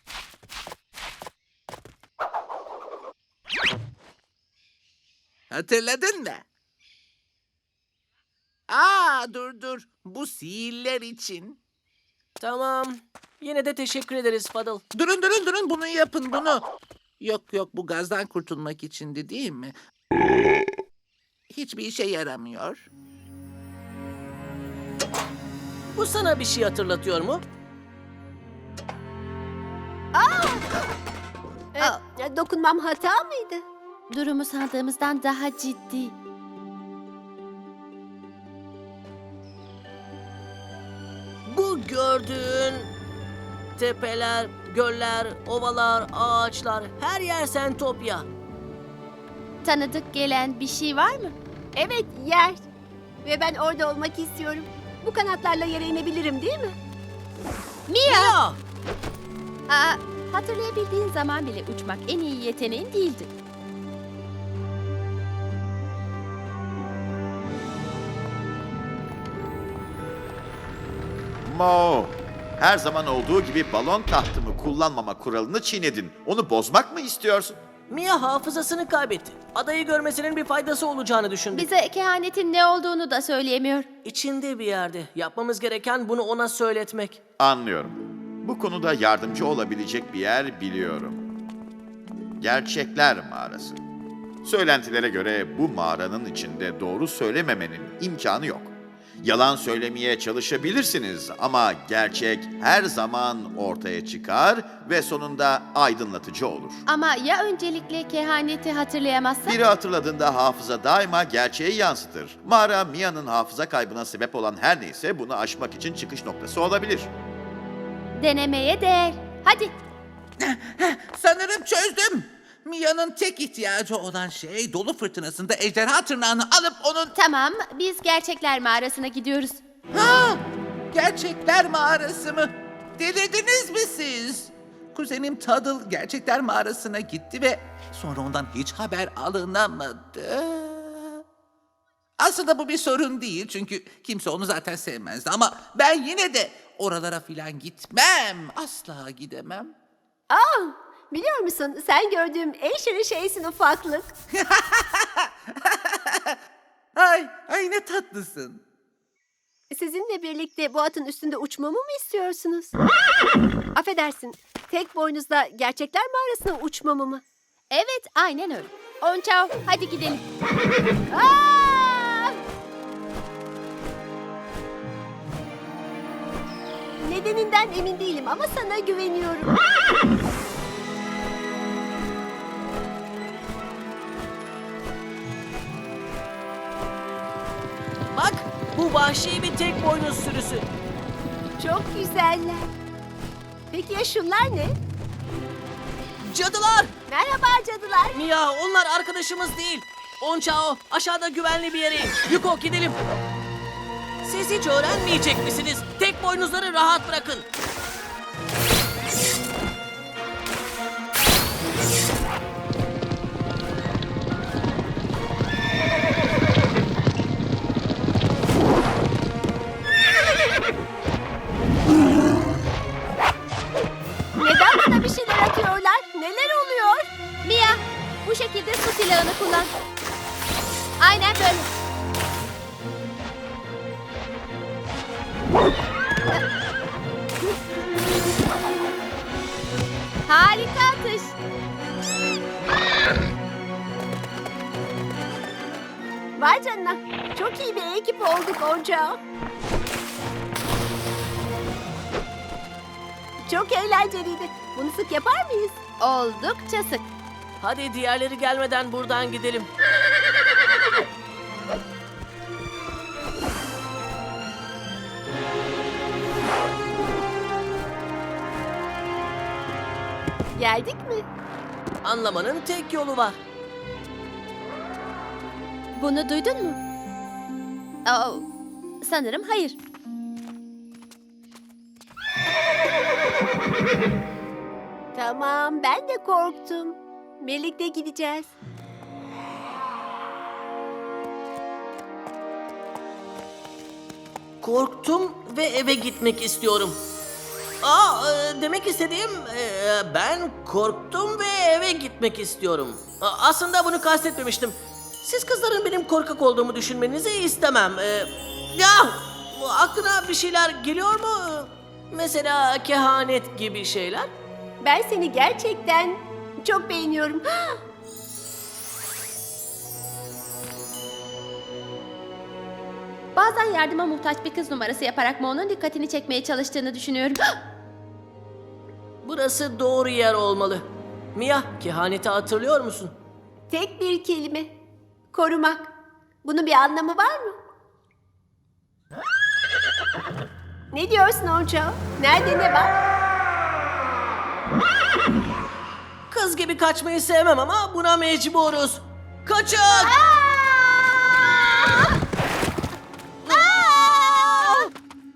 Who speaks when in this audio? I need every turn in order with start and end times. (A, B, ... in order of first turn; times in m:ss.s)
0:05.5-0:06.4 A
0:08.7-0:11.6 A
0:12.4-0:14.8 B
0:14.9-0:16.6 A
0:17.2-0:19.7 A
0:21.5-0:22.8 A
0:25.9-0:27.4 B
0:30.1-0:30.7 C
0:31.7-0:33.6 C
0:34.1-0:36.1 D
0:41.5-0:42.9 B
0:43.8-0:48.2 B
0:49.6-0:51.3 D
0:51.8-0:52.6 C
0:53.2-0:56.8 C
0:57.9-0:58.4 D
0:58.0-0:58.6 B
0:59.7-1:03.3 D
1:11.4-1:17.6 E
1:17.9-1:21.7 B
1:21.5-1:23.9 D
1:24.0-1:27.2 B
1:27.4-1:31.2 E
1:32.4-1:33.8 E
1:34.4-1:46.8 E
1:46.8-1:49.6 D
1:49.4-1:57.1 E
1:58.2-1:59.7 D
2:00.4-2:07.1 A
2:07.2-2:09.6 D
2:09.9-2:21.2 A
2:22.2-2:29.7 A
2:30.3-2:34.1 C
2:34.3-2:36.4 A
2:37.0-2:38.6 A
2:39.7-2:42.8 C
2:43.7-2:47.2 C
2:47.7-2:50.2 D
2:51.1-2:52.4 C
2:57.0-2:59.5 C
3:08.1-3:10.6 B
3:11.6-3:12.7 C
3:13.7-3:14.7 C
3:16.2-3:16.9 B
3:17.1-3:18.2 C
3:18.1-3:23.0 B
3:24.2-3:27.4 B
3:44.4-3:47.1 C
3:47.4-3:49.7 D
3:51.0-3:51.7 D
4:00.3-4:01.4 D
4:06.4-4:09.2 C
4:13.4-4:15.8 C
4:16.0-4:17.0 D
4:17.6-4:19.7 B
4:30.6-4:31.2 C
4:32.0-4:33.4 B
4:35.9-4:36.8 D
4:38.0-4:38.4 D
4:39.0-4:39.8 D
4:45.1-4:48.5 C
4:54.6-4:57.0 B
4:57.8-5:14.3 B
5:14.8-5:17.8 C
5:23.3-5:27.4 D
5:29.2-5:33.1 B
5:33.7-5:34.7 C
5:35.3-5:35.9 C
5:36.4-5:37.6 C
5:40.9-5:42.9 C
5:46.3-5:50.1 B
5:50.1-5:50.6 C
5:53.5-5:53.9 B
5:54.4-5:54.8 B